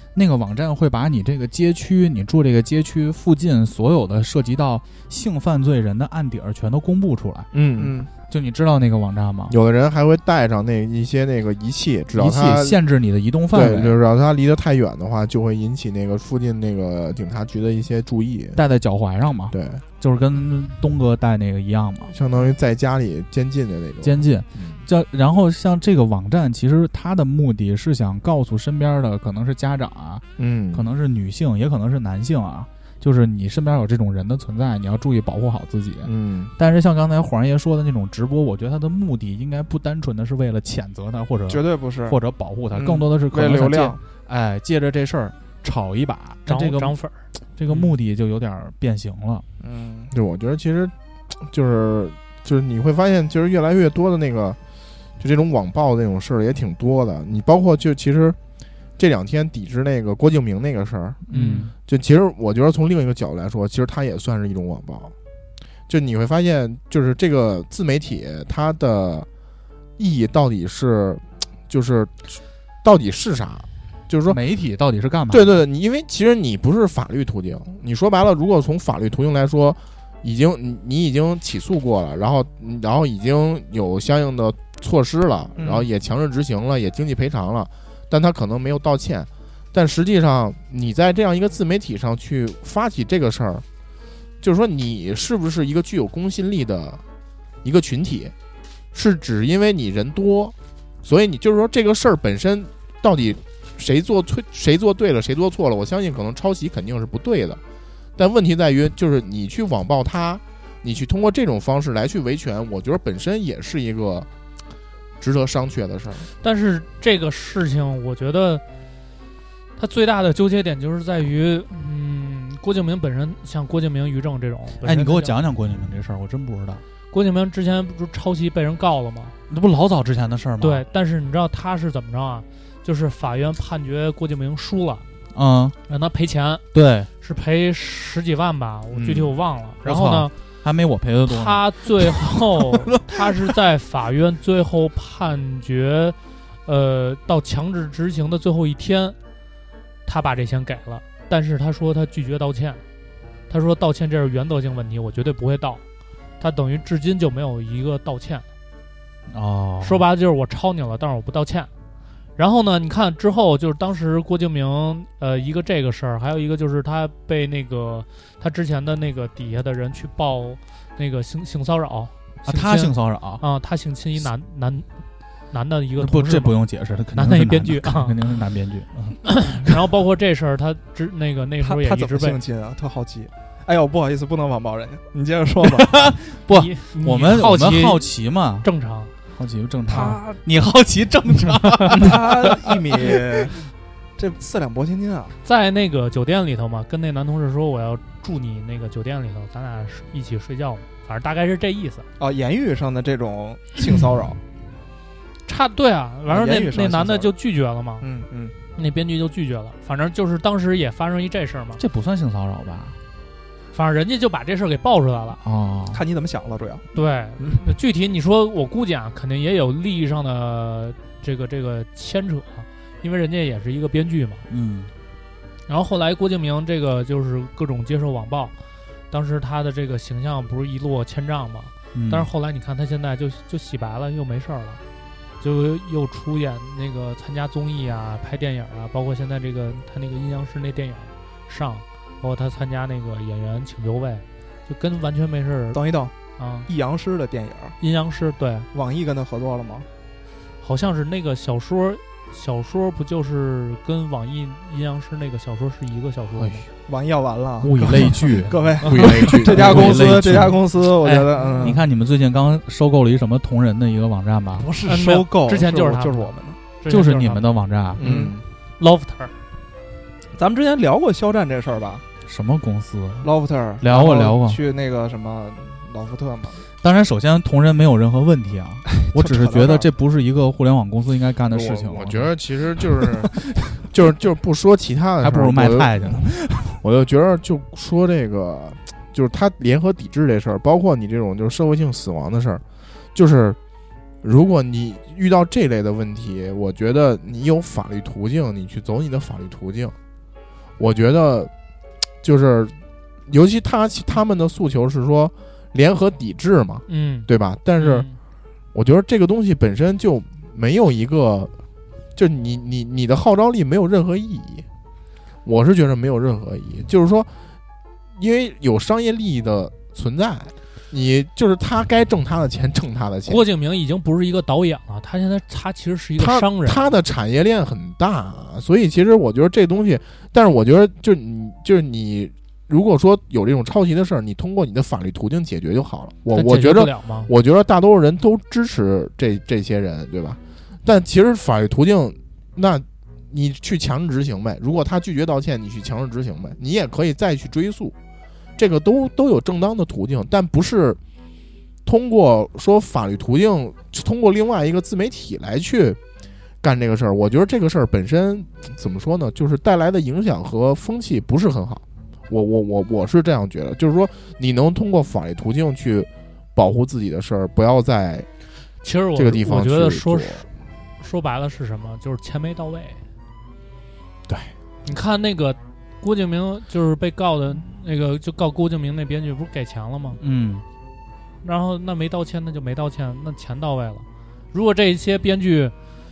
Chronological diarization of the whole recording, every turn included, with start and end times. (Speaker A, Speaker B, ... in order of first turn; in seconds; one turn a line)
Speaker A: 0.1-7.5
Speaker B: 7.5-7.9
Speaker C: 7.8-8.1
Speaker A: 8.2-9.6
Speaker B: 9.5-12.8
Speaker A: 12.1-13.9
Speaker B: 13.5-18.6
Speaker A: 18.5-22.1
Speaker B: 19.5-19.8
Speaker B: 22.1-24.8
Speaker A: 24.0-47.0
Speaker B: 30.4-30.9
Speaker B: 36.0-36.5
Speaker C: 41.5-42.2
Speaker C: 42.7-44.0
Speaker D: 46.5-47.1
Speaker A: 47.5-49.5
Speaker C: 49.6-50.1
Speaker B: 50.1-54.6
Speaker B: 55.2-58.4
Speaker B: 59.0-61.2
Speaker A: 61.3-61.7
Speaker D: 61.3-61.7
Speaker B: 61.9-65.1
Speaker B: 65.9-69.3
Speaker B: 70.0-74.4
Speaker A: 74.3-75.6
Speaker B: 75.3-93.6
Speaker C: 85.5-85.9
Speaker B: 94.4-97.0
Speaker B: 97.6-98.3
Speaker B: 98.9-107.6
Speaker B: 108.2-114.3
Speaker B: 115.2-116.3
Speaker D: 116.4-118.6
Speaker D: 119.8-125.3
Speaker A: 124.8-126.8
Speaker D: 127.1-129.3
Speaker A: 129.5-130.8
Speaker D: 130.6-135.0
Speaker A: 135.3-135.8
Speaker D: 135.9-136.7
Speaker A: 136.7-137.1
Speaker D: 137.2-140.3
Speaker A: 139.8-141.6
Speaker D: 141.2-149.2
Speaker D: 150.1-152.8
Speaker D: 153.5-155.8
Speaker D: 156.4-158.4
Speaker A: 159.3-160.0
Speaker D: 159.8-161.7
Speaker D: 162.4-174.9
Speaker A: 172.5-173.4
Speaker D: 175.5-178.2
Speaker A: 176.0-179.3
Speaker D: 179.3-182.4
Speaker C: 181.6-185.9
Speaker A: 185.6-188.7
Speaker D: 186.5-188.1
Speaker D: 188.6-189.1
Speaker A: 189.3-193.2
Speaker C: 189.9-190.4
Speaker C: 191.9-193.6
Speaker C: 194.2-195.3
Speaker D: 195.4-202.1
Speaker C: 202.2-204.4
Speaker D: 205.4-208.1
Speaker C: 206.3-207.3
Speaker C: 208.0-208.6
Speaker D: 208.7-211.8
Speaker A: 211.8-213.0
Speaker D: 213.7-215.4
Speaker A: 215.4-216.0
Speaker C: 215.9-216.8
Speaker D: 216.9-224.4
Speaker A: 224.5-224.9
Speaker D: 225.7-228.5
Speaker D: 229.1-234.8
Speaker A: 231.9-232.3
Speaker D: 235.4-245.8
Speaker C: 245.7-246.1
Speaker D: 246.4-246.7
Speaker C: 246.7-247.8
Speaker D: 247.8-248.7
Speaker C: 248.7-249.9
Speaker D: 250.6-256.6
Speaker A: 256.4-256.7
Speaker C: 256.9-261.8
Speaker A: 257.6-260.8
Speaker B: 258.8-260.2
Speaker D: 261.0-261.3
Speaker A: 261.6-264.7
Speaker C: 264.6-266.6
Speaker D: 264.9-267.6
Speaker A: 266.9-268.1
Speaker B: 268.0-268.4
Speaker C: 268.0-268.3
Speaker D: 268.8-269.3
Speaker C: 270.3-272.0
Speaker A: 272.2-273.3
Speaker C: 273.2-276.6
Speaker A: 273.8-274.6
Speaker A: 276.8-282.3
Speaker C: 279.1-279.9
Speaker B: 281.5-293.6
Speaker A: 285.2-286.8
Speaker B: 294.2-299.9
Speaker B: 300.8-301.5
Speaker B: 302.2-302.7
Speaker B: 303.3-308.1
Speaker D: 306.9-308.1
Speaker B: 308.7-311.5
Speaker B: 312.1-314.6
Speaker B: 315.4-317.3
Speaker B: 318.1-323.4
Speaker D: 323.3-326.9
Speaker B: 326.2-347.9
Speaker D: 336.3-337.3
Speaker B: 348.6-351.0
Speaker B: 351.8-356.0
Speaker B: 356.6-368.3
Speaker D: 368.8-370.5
Speaker B: 369.1-370.4
Speaker D: 371.0-373.0
Speaker B: 374.3-374.5
Speaker D: 374.8-380.2
Speaker A: 380.2-380.6
Speaker D: 381.4-385.7